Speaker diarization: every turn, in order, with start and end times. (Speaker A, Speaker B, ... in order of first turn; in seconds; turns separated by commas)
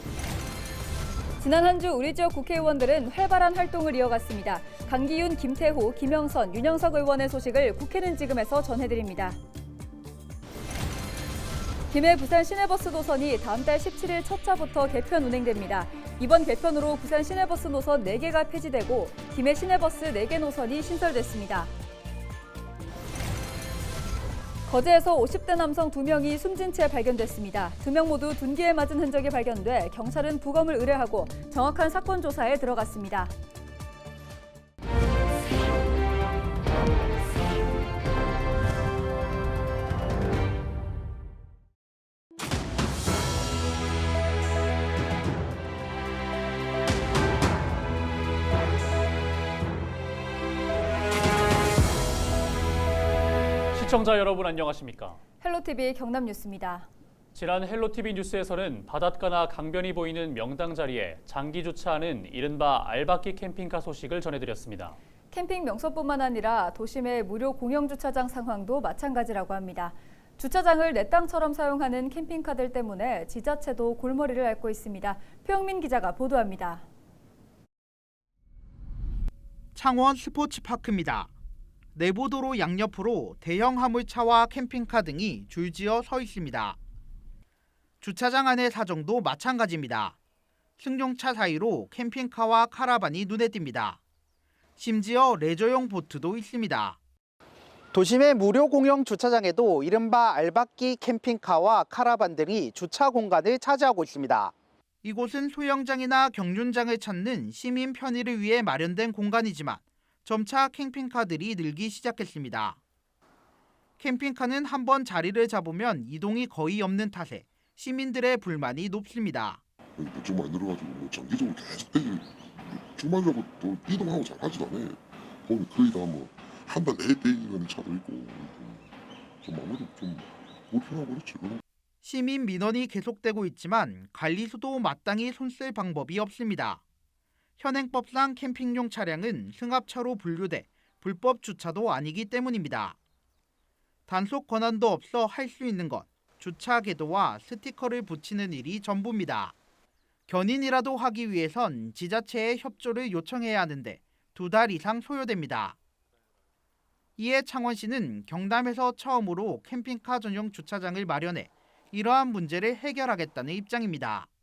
Speaker A: 1.4-9.4, Speaker A: 11.9-21.7, Speaker A: 24.7-33.3, Speaker B: 53.7-55.2, Speaker A: 55.4-56.9, Speaker B: 57.3-65.0, Speaker A: 65.3-76.9, Speaker C: 79.8-81.3, Speaker C: 81.9-86.8, Speaker C: 88.0-90.2, Speaker C: 90.8-94.0, Speaker C: 94.8-97.0, Speaker C: 97.9-112.8, Speaker C: 114.0-119.6, Speaker D: 120.0-131.6, Speaker C: 132.0-136.8, Speaker C: 137.6-143.0, Speaker C: 144.1-149.6, Speaker C: 150.3-155.8, Speaker C: 157.2-164.3